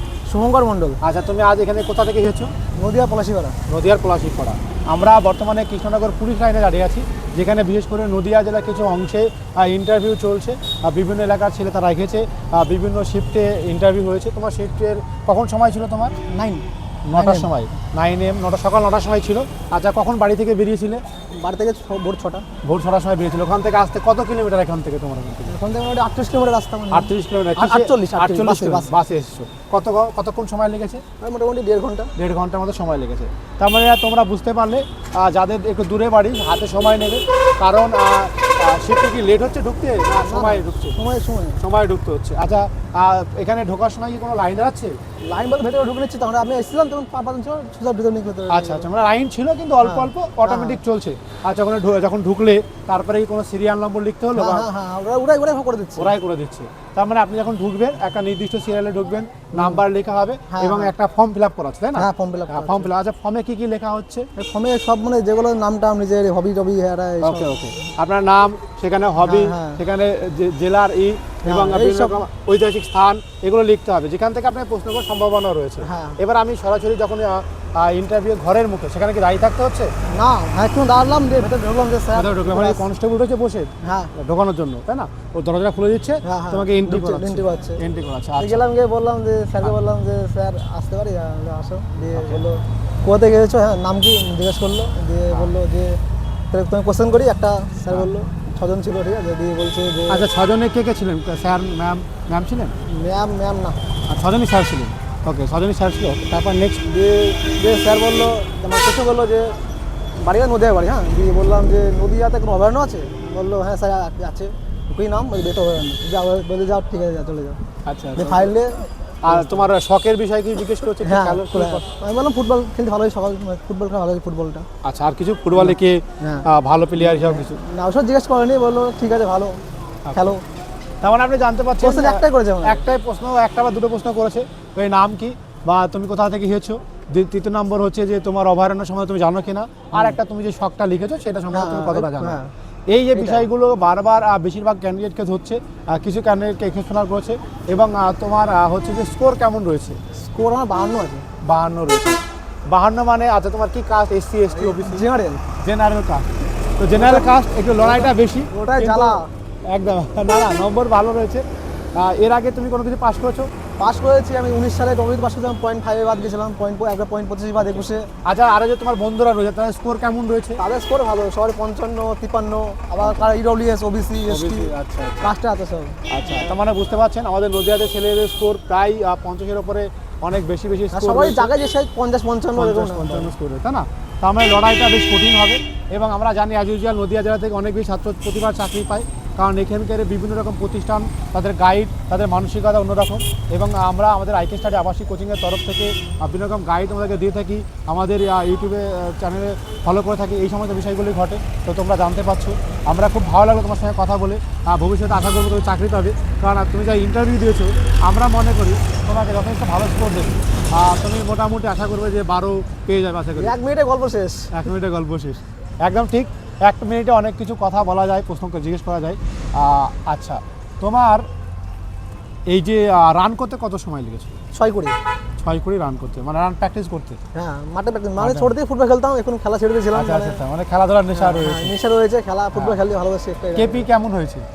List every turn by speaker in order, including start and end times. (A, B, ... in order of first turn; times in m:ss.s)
0:00.3-0:01.0 A
0:01.0-0:02.5 B
0:02.8-0:03.6 A
0:03.7-0:16.2 B
0:16.3-0:17.5 A
0:17.0-0:21.0 B
0:21.3-0:22.5 A
0:22.6-0:25.5 B
0:25.5-0:29.0 A
0:26.9-0:31.0 B
0:31.2-0:32.1 A
0:32.2-0:41.0 B
0:40.2-0:41.6 A
0:41.6-0:45.0 B
0:45.2-0:48.9 A
0:48.5-0:54.7 B
0:49.8-0:50.8 A
0:54.3-0:56.1 A
0:56.0-1:04.3 B
0:59.6-0:59.8 A
1:00.5-1:00.9 A
1:02.0-1:02.9 A
1:04.4-1:07.6 A
1:07.2-1:19.9 B
1:09.2-1:09.8 A
1:11.4-1:12.2 A
1:15.8-1:16.2 A
1:20.1-1:22.9 A
1:22.1-1:28.6 B
1:23.8-1:24.1 A
1:26.2-1:27.8 A
1:28.4-1:36.0 A
1:32.2-1:32.4 B
1:36.5-1:40.3 A
1:40.1-1:42.8 B
1:42.8-1:43.8 A
1:44.1-1:46.8 B
1:46.9-1:49.6 A
1:50.2-1:57.6 A
1:57.9-1:58.5 B
1:58.2-1:59.7 A
1:59.2-2:01.9 B
2:01.0-2:04.7 A
2:04.8-2:07.6 B
2:05.6-2:06.5 A
2:07.0-2:09.6 A
2:10.0-2:10.3 B
2:10.2-2:10.4 A
2:11.0-2:22.4 B
2:11.8-2:12.8 A
2:21.5-2:22.5 A
2:22.9-2:30.0 B
2:23.2-2:23.5 A
2:30.1-2:31.3 A
2:31.4-2:35.1 B
2:34.5-2:35.4 A
2:35.6-2:43.5 B
2:36.9-2:39.3 A
2:43.8-2:48.1 A
2:47.6-2:50.6 B
2:50.6-2:56.6 A
2:54.3-2:55.3 B
2:56.1-3:01.5 B
3:00.9-3:03.3 A
3:02.6-3:33.5 B
3:33.4-3:34.5 A
3:34.5-3:41.3 B
3:42.5-3:44.4 B
3:44.5-3:45.0 A
3:45.4-3:47.2 B
3:47.3-3:50.4 A
3:48.2-3:48.5 B
3:49.9-3:51.7 B
3:51.1-3:53.9 A
3:53.6-3:54.5 B